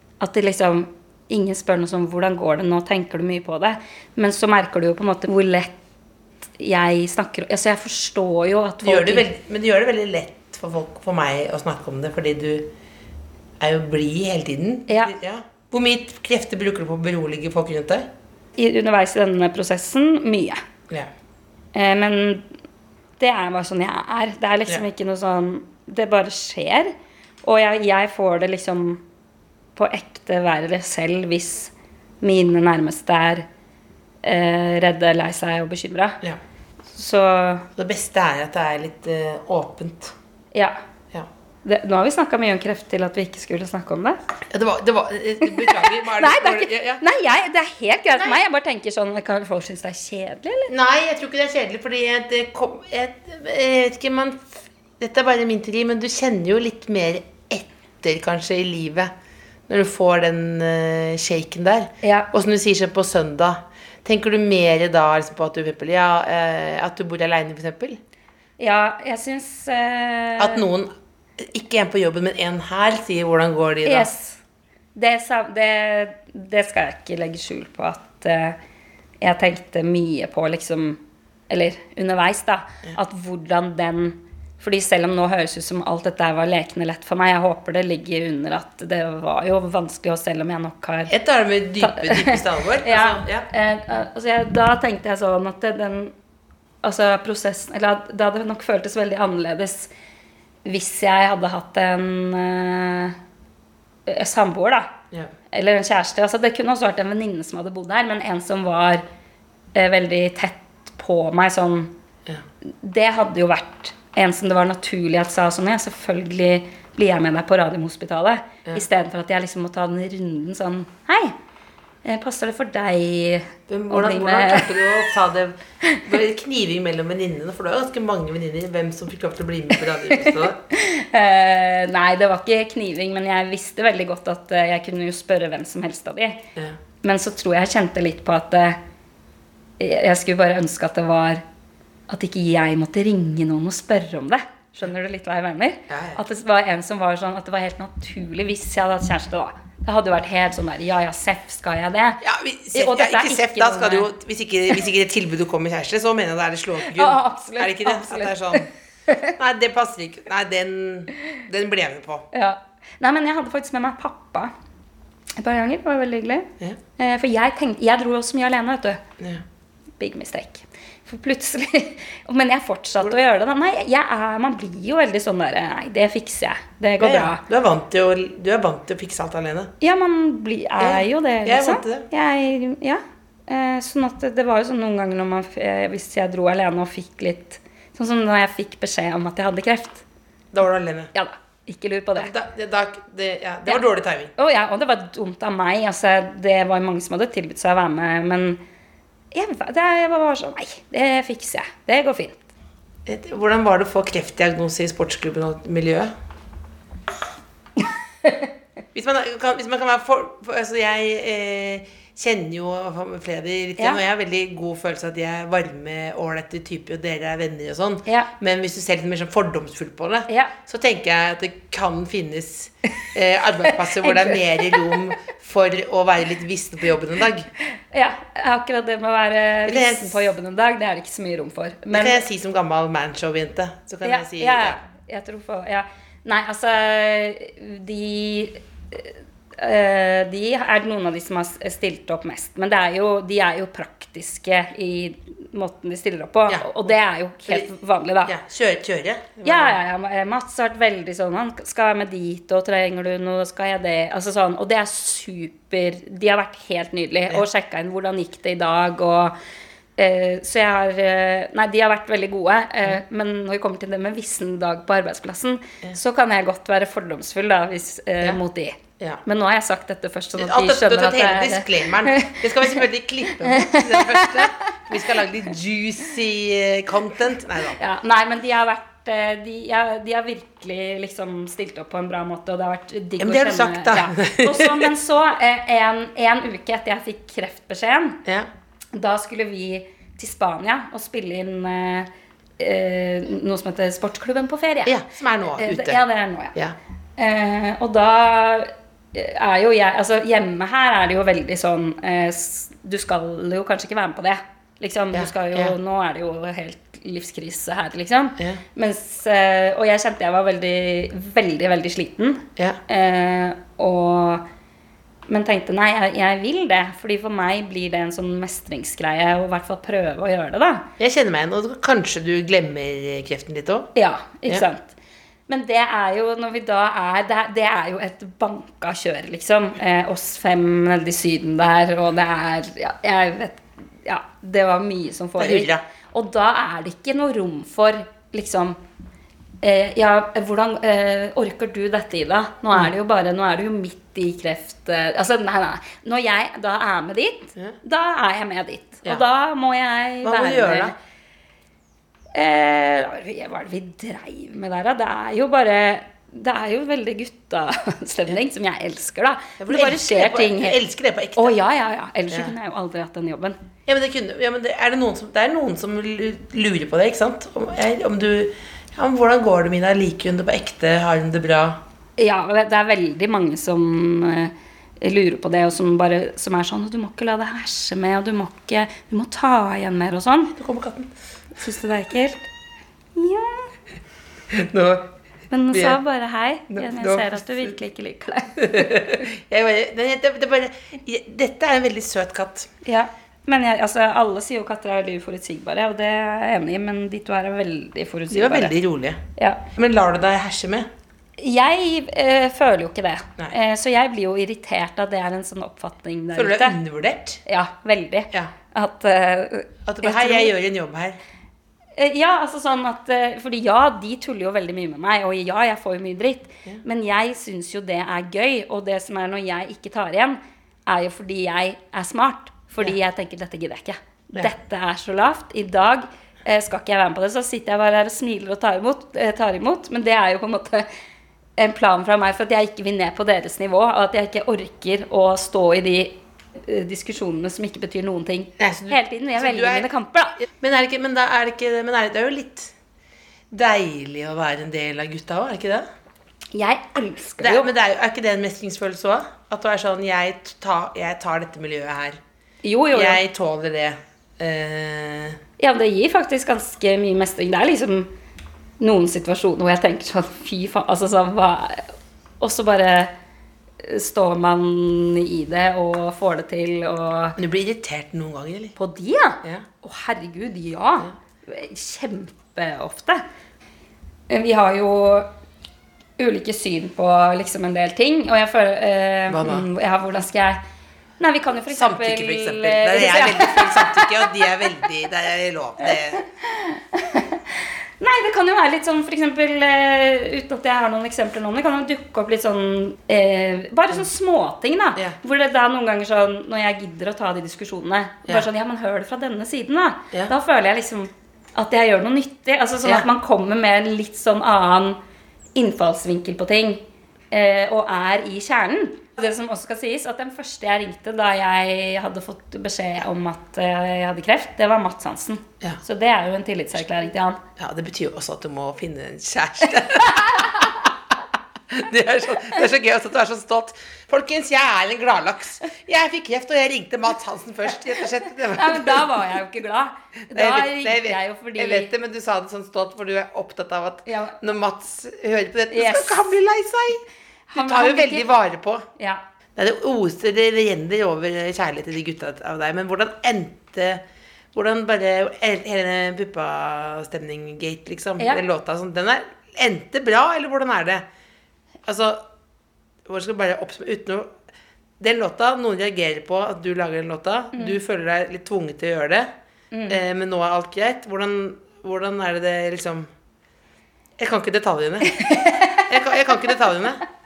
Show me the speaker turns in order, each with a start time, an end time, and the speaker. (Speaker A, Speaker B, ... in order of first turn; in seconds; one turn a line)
Speaker A: 0.2-5.7
Speaker A: 6.6-9.3
Speaker B: 8.8-12.7
Speaker B: 13.6-18.1
Speaker A: 14.9-15.1
Speaker A: 18.6-20.6
Speaker A: 21.7-22.4
Speaker A: 23.2-29.0
Speaker A: 29.8-33.5
Speaker A: 34.2-36.2
Speaker A: 36.9-37.7
Speaker B: 37.8-40.1
Speaker A: 41.6-44.2
Speaker B: 44.5-47.0
Speaker A: 45.4-50.7
Speaker B: 48.1-48.4
Speaker B: 50.7-59.1
Speaker B: 59.7-68.0
Speaker A: 62.0-62.3
Speaker A: 68.6-70.6
Speaker B: 70.4-74.1
Speaker A: 73.8-74.4
Speaker A: 74.9-78.6
Speaker A: 79.2-91.1
Speaker B: 91.1-93.5
Speaker A: 91.8-96.1
Speaker A: 96.8-99.9
Speaker A: 100.6-103.2
Speaker A: 104.1-104.9
Speaker A: 105.5-109.0
Speaker A: 109.7-111.9
Speaker A: 112.7-121.3
Speaker A: 122.0-125.0
Speaker B: 123.7-130.6
Speaker A: 130.2-136.4
Speaker A: 137.0-138.8
Speaker A: 139.8-141.4
Speaker A: 142.1-152.2
Speaker B: 145.9-146.2
Speaker B: 152.2-158.7
Speaker A: 152.7-154.1
Speaker A: 156.8-159.3
Speaker B: 159.4-162.3
Speaker A: 162.3-164.5
Speaker A: 165.4-169.0
Speaker A: 170.0-177.4
Speaker B: 177.0-179.7
Speaker A: 179.8-190.0
Speaker B: 180.8-182.1
Speaker B: 190.5-191.1
Speaker A: 191.1-192.3
Speaker B: 192.1-194.3
Speaker A: 193.7-198.6
Speaker A: 199.3-202.4
Speaker B: 203.1-206.1
Speaker B: 208.9-227.5
Speaker A: 220.3-220.5
Speaker A: 223.9-224.9
Speaker A: 227.9-232.2
Speaker B: 229.7-230.3
Speaker B: 231.9-234.8
Speaker A: 234.0-248.3
Speaker B: 246.5-246.9
Speaker B: 248.3-249.8
Speaker A: 249.4-259.3
Speaker A: 260.0-272.8
Speaker B: 270.4-277.8
Speaker A: 273.3-274.5
Speaker A: 277.8-288.2
Speaker B: 283.2-284.9
Speaker A: 288.9-295.0
Speaker B: 294.9-296.0
Speaker A: 295.6-296.6
Speaker A: 297.2-314.4
Speaker B: 305.1-305.7
Speaker A: 315.3-320.9
Speaker B: 321.0-323.9
Speaker A: 323.9-324.9
Speaker A: 325.5-338.8
Speaker B: 335.4-335.8
Speaker A: 339.6-350.9
Speaker B: 350.2-350.9
Speaker A: 352.3-360.8
Speaker B: 359.6-361.6
Speaker A: 361.4-363.6
Speaker B: 363.9-371.8
Speaker A: 372.2-380.5
Speaker B: 380.6-381.1
Speaker A: 381.6-382.4
Speaker A: 383.1-383.7
Speaker B: 384.5-385.1
Speaker A: 385.5-389.3
Speaker B: 385.7-386.0
Speaker B: 386.7-387.7
Speaker B: 388.6-392.7
Speaker A: 392.9-398.7
Speaker B: 398.3-399.2
Speaker A: 399.4-399.6
Speaker B: 399.7-400.9
Speaker A: 401.4-406.8
Speaker B: 406.3-407.4
Speaker A: 407.4-410.5
Speaker B: 409.9-411.2
Speaker A: 412.0-430.9
Speaker A: 431.6-440.4
Speaker B: 438.6-442.7
Speaker B: 443.5-445.9
Speaker A: 446.5-447.7
Speaker B: 447.4-452.2
Speaker A: 452.6-453.2
Speaker B: 452.9-455.4
Speaker A: 455.6-458.1
Speaker A: 458.8-463.1
Speaker A: 463.8-467.4
Speaker B: 467.4-468.7
Speaker A: 468.8-473.2
Speaker A: 474.3-475.3
Speaker A: 476.2-480.6
Speaker B: 479.3-479.6
Speaker A: 481.2-484.4
Speaker B: 481.7-486.2
Speaker A: 485.8-505.0
Speaker A: 505.6-517.4
Speaker B: 517.6-520.9
Speaker A: 520.1-520.7
Speaker B: 521.7-529.2
Speaker A: 528.5-531.9
Speaker B: 530.3-538.9
Speaker A: 534.1-534.4
Speaker A: 535.7-536.3
Speaker A: 537.5-538.3
Speaker B: 539.6-551.1
Speaker B: 551.9-552.2
Speaker B: 553.0-554.3
Speaker B: 555.0-559.3
Speaker A: 557.5-557.8
Speaker A: 559.7-560.0
Speaker B: 559.9-563.1
Speaker B: 564.2-567.0
Speaker A: 565.1-565.9